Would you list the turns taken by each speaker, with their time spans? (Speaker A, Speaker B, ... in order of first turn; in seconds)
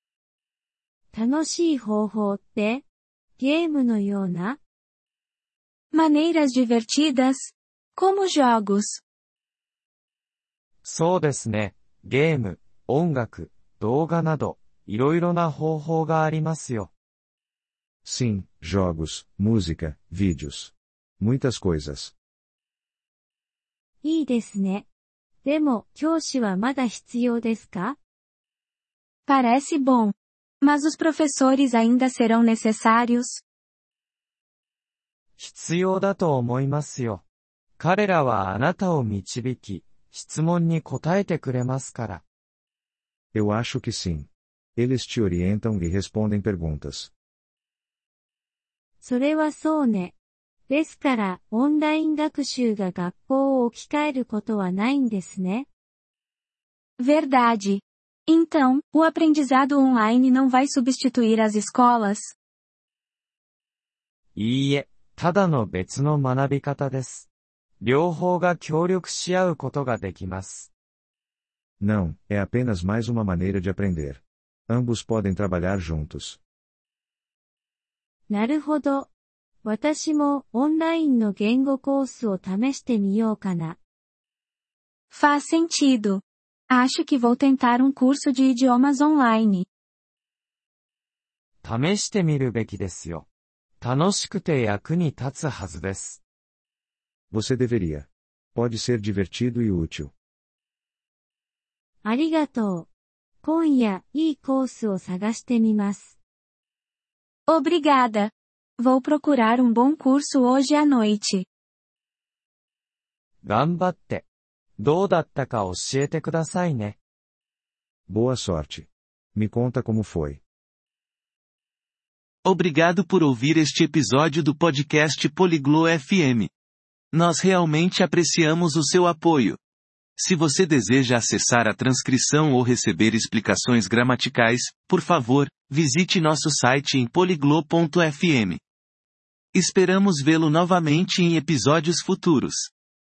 Speaker A: 1.1-2.8, 3.4-4.6, 24.0-24.9, 25.4-28.0, 49.0-50.1, 50.7-55.7, 78.3-79.1, 79.6-83.8, 102.0-102.9, 103.4-106.2
Speaker B: 5.9-9.0, 29.3-33.4, 57.0-62.3, 85.1-89.7, 107.5-111.5
Speaker C: 10.8-16.9, 35.4-37.2, 37.8-42.2, 64.4-67.3, 67.8-70.7, 91.6-93.3, 93.8-96.2, 113.4-114.2, 114.8-117.0
Speaker D: 18.1-22.1, 43.3-47.1, 71.8-76.4, 97.3-100.1, 118.1-120.4
Speaker E: 122.5-126.5, 127.1-129.6, 130.2-138.6, 139.5-142.7